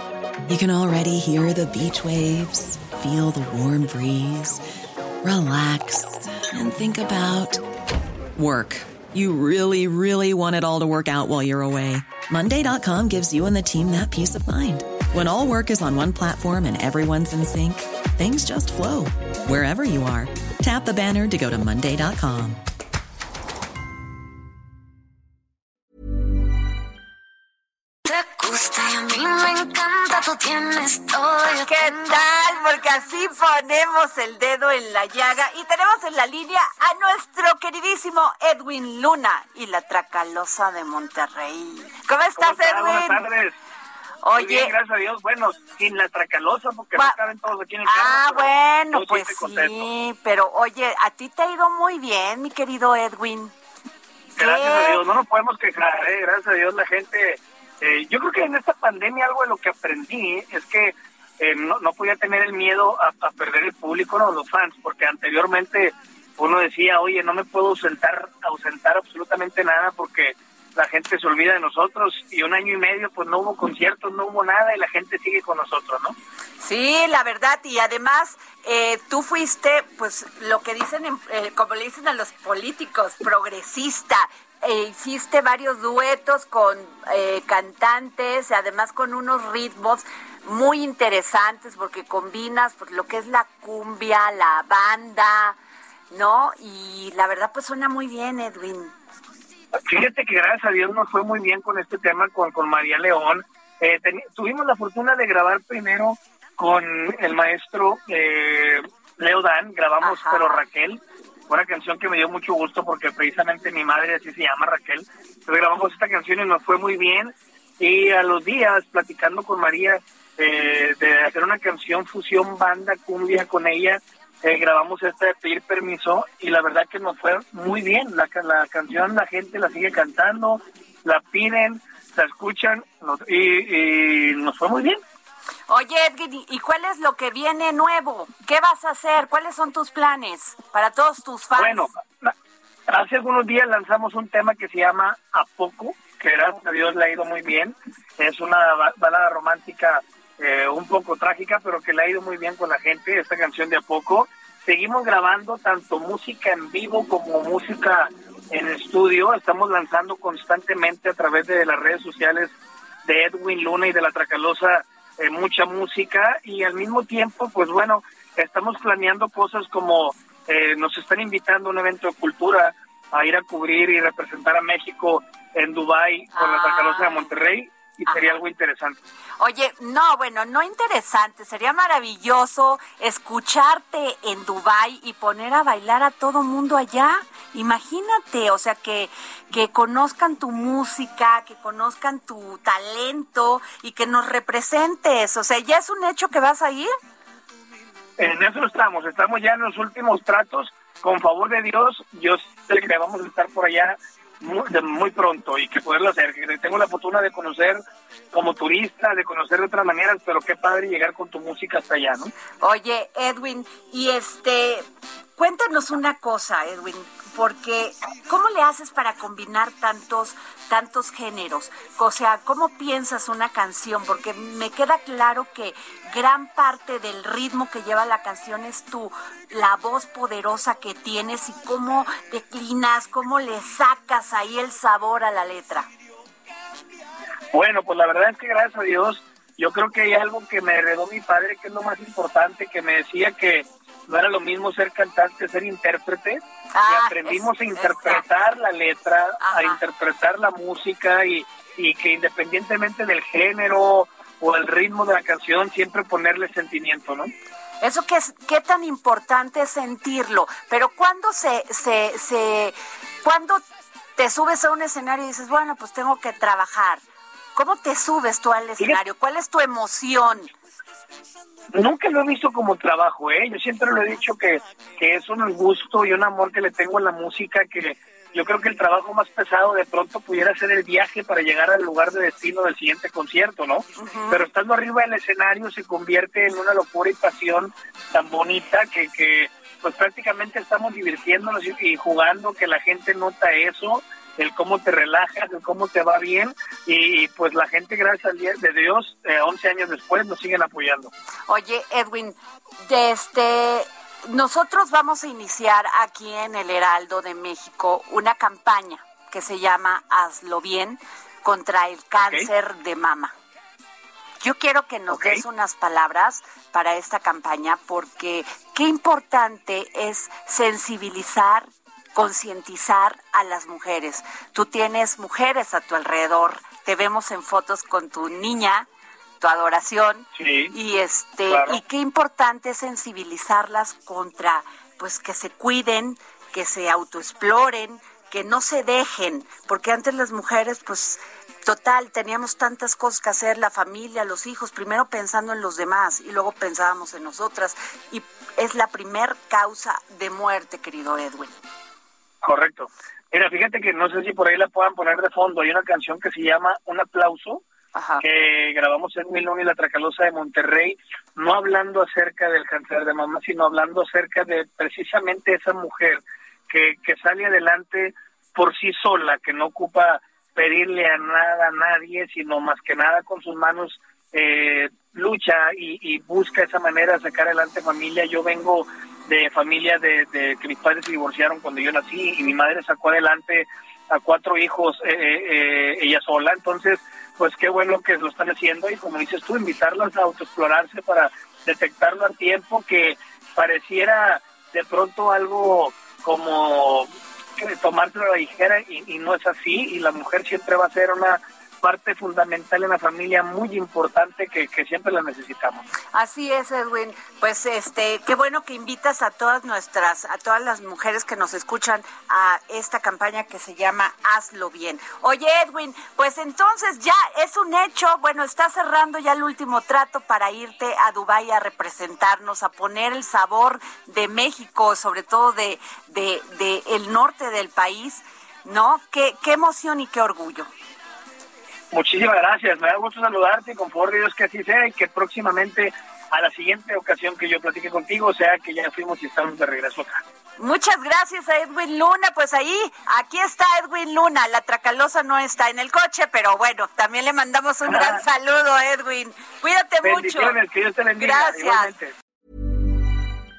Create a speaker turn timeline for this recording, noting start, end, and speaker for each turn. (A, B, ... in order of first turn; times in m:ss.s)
0:00.5-0:04.6 A
0:05.2-0:07.6 A
0:08.4-0:22.6 A
0:28.1-0:31.6 B
0:31.6-0:43.2 C
0:42.4-0:43.6 D
0:44.2-0:44.7 C
0:44.3-0:49.9 D
0:47.8-0:53.5 C
0:54.4-0:55.1 C
0:54.4-1:16.1 D
1:16.6-1:35.6 C
1:36.1-1:38.9 C
1:39.9-2:15.0 D
1:50.0-1:50.6 C
2:15.7-2:21.9 C
2:21.6-2:22.3 D
2:22.9-2:59.0 D
2:56.3-2:57.3 C
2:58.1-2:58.4 C
2:59.4-3:16.9 C
3:18.2-3:27.8 D
3:28.3-3:32.3 D
3:32.6-3:34.8 C
3:35.4-3:55.9 C
3:57.5-4:17.3 D
4:06.7-4:08.3 C
4:09.4-4:09.8 C
4:17.8-4:23.6 C
4:24.2-4:27.0 C
4:27.5-4:30.5 C
4:31.7-5:01.1 D
4:44.0-4:44.4 C
5:01.5-5:13.3 C
5:12.2-5:12.5 D
5:14.4-5:28.9 C
5:15.1-5:15.4 D
5:29.4-5:51.6 C
5:30.4-5:30.7 D
5:31.5-5:31.8 D
5:52.4-5:57.6 D
5:57.9-5:58.2 C
5:58.2-6:45.8 D
6:46.1-7:10.7 C
7:11.9-7:20.2 D
7:20.6-7:30.6 C
7:27.8-7:28.2 D
7:30.0-7:32.1 D
7:31.2-7:31.9 C